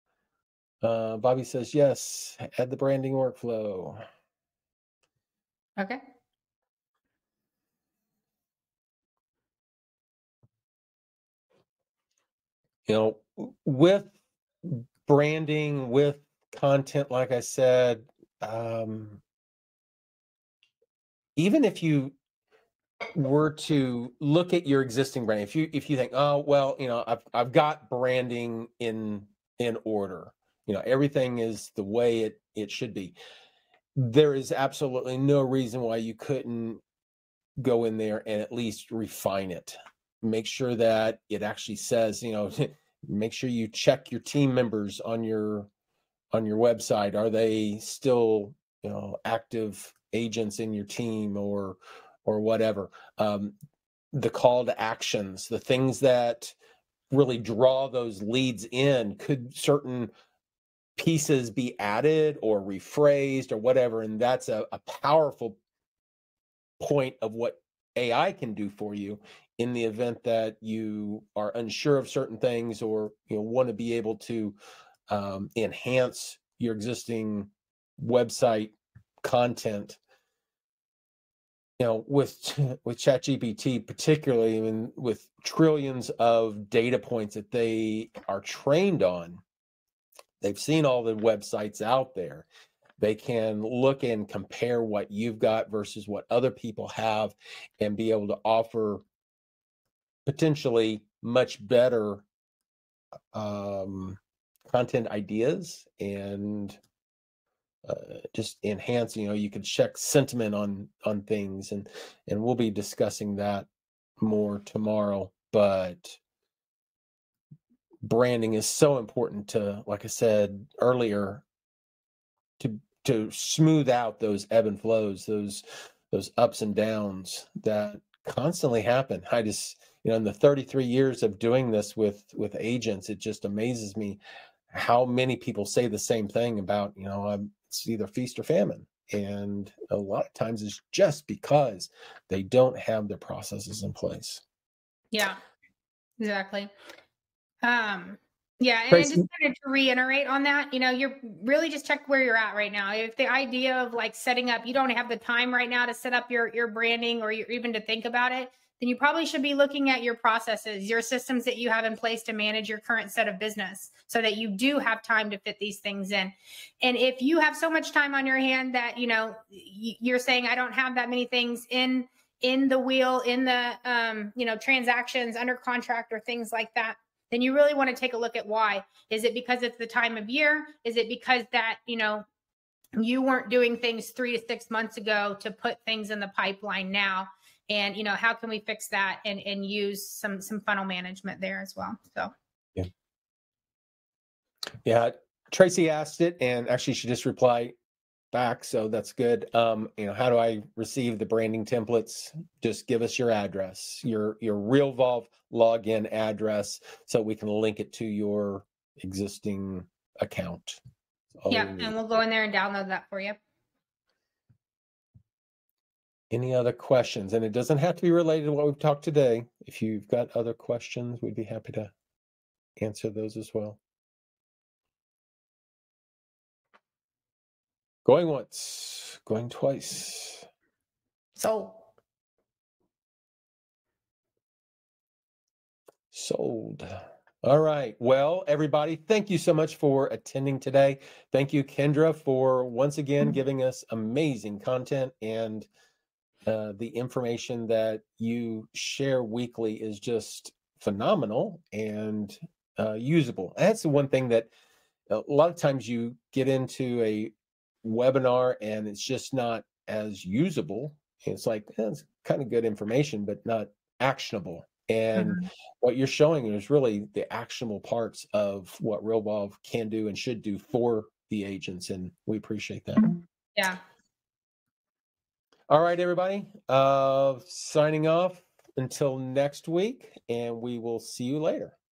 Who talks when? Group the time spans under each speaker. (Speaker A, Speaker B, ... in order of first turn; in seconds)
Speaker A: 0.8-4.0, 12.8-19.2, 21.4-22.1, 23.1-33.1, 34.0-36.8, 37.6-45.7, 46.3-53.5, 54.1-56.5, 57.1-60.1, 61.0-65.6, 66.8-74.5, 75.1-80.0, 81.8-89.4, 90.4-92.5, 93.0-99.0, 100.2-102.2, 103.3-106.8, 107.8-113.7, 114.2-116.2, 118.0-121.4, 122.6-134.2, 134.7-144.4, 148.9-149.2, 194.8-197.7, 198.3-210.8, 211.4-211.9, 216.3-221.9, 222.8-223.8, 228.0-230.4, 236.1-245.7, 246.4-254.5, 255.1-257.3, 257.8-273.2, 275.7-281.7
Speaker B: 145.1-145.4, 146.2-146.7, 147.6-182.2, 183.0-192.3, 211.5-213.4, 231.3-231.8, 265.1-265.5, 273.6-273.8